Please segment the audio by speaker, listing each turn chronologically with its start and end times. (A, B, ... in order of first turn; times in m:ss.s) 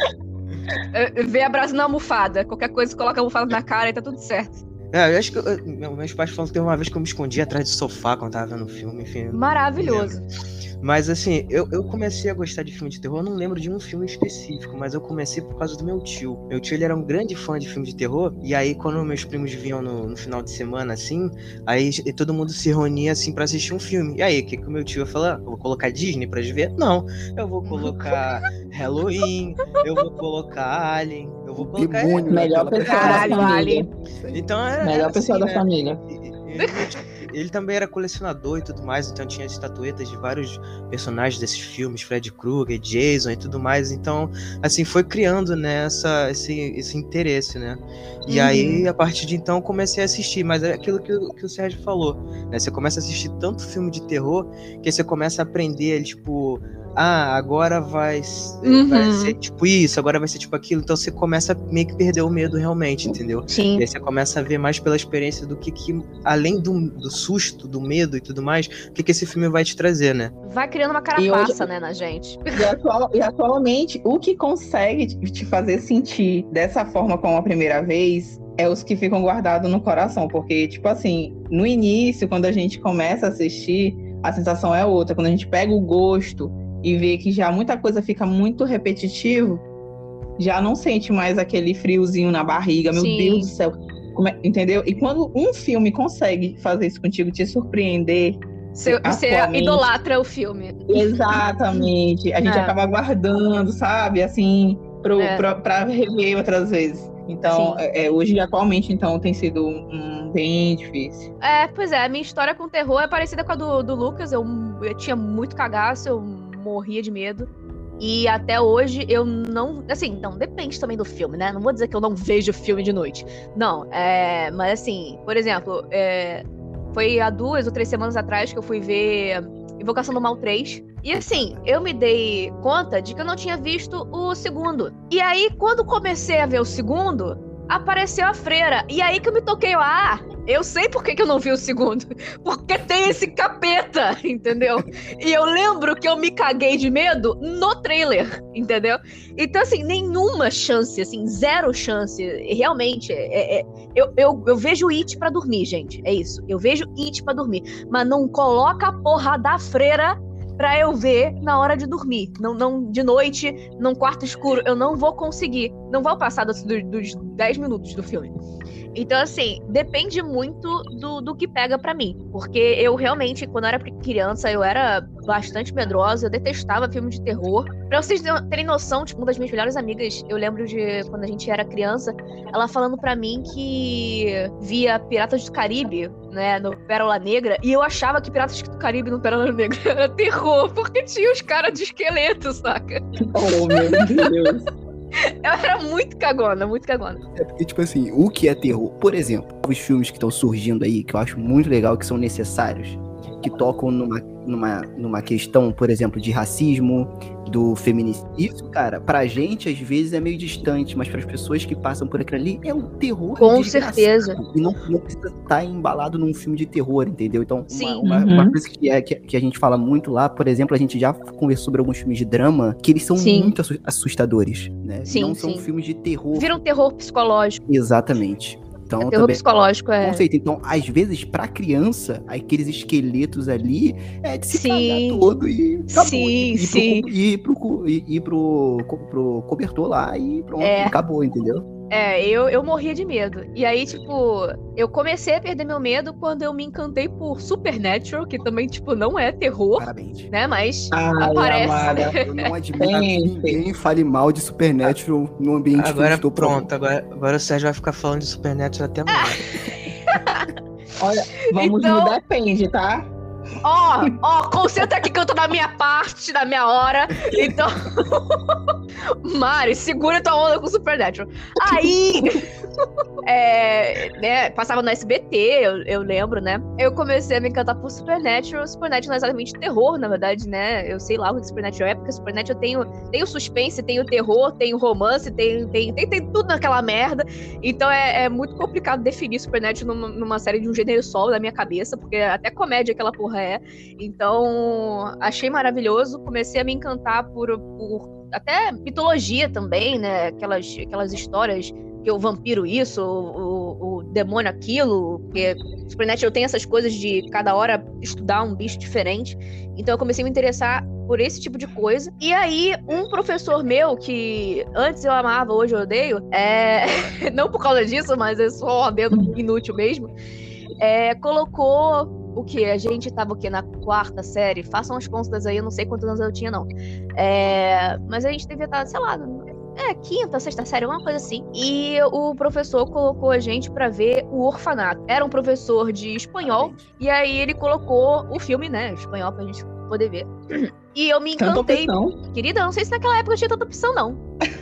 0:00.9-0:04.6 A
0:04.9-0:10.2 B
0:09.3-0:10.2 A
0:10.8-0:32.4 B
0:27.6-0:28.1 A
0:31.6-0:34.5 C
0:32.3-0:33.9 D
0:32.8-0:33.9 A
0:34.3-1:10.3 B
0:34.8-0:36.0 D
0:36.6-0:36.9 A
0:48.3-0:48.8 A
0:58.6-0:59.3 A
1:03.5-1:03.8 A
1:10.4-1:12.4 A
1:11.2-1:11.6 D
1:12.5-1:29.6 D
1:30.4-1:39.9 D
1:32.9-1:33.5 A
1:38.7-1:41.9 A
1:40.9-1:51.3 D
1:42.4-1:42.7 A
1:45.2-1:45.4 A
1:47.5-1:47.8 A
1:51.4-1:57.5 A
1:58.0-2:48.3 A
2:11.1-2:11.6 C
2:48.9-3:13.0 A
3:13.3-3:14.6 D
3:13.7-3:14.0 A
3:15.2-3:17.2 A
3:17.3-3:46.6 C
3:33.4-3:34.4 A
3:37.7-3:38.0 A
3:38.0-3:38.6 D
3:43.1-3:43.5 A
3:45.0-3:45.7 A
3:46.3-3:47.6 A
3:47.6-3:49.4 C
3:49.0-3:50.2 A
3:50.0-4:01.6 C
3:54.5-3:55.3 A
3:55.9-3:57.1 A
4:00.6-4:01.0 A
4:01.9-4:12.3 A
4:09.8-4:10.3 C
4:10.9-4:12.2 D
4:12.1-4:16.7 C
4:12.8-4:13.6 D
4:15.8-4:19.5 B
4:20.0-4:20.5 A
4:21.0-4:23.1 D
4:21.5-4:22.2 A
4:23.6-4:32.4 A
4:33.2-5:20.1 A
5:20.8-5:44.2 A
5:36.4-5:36.9 C
5:41.4-5:42.2 D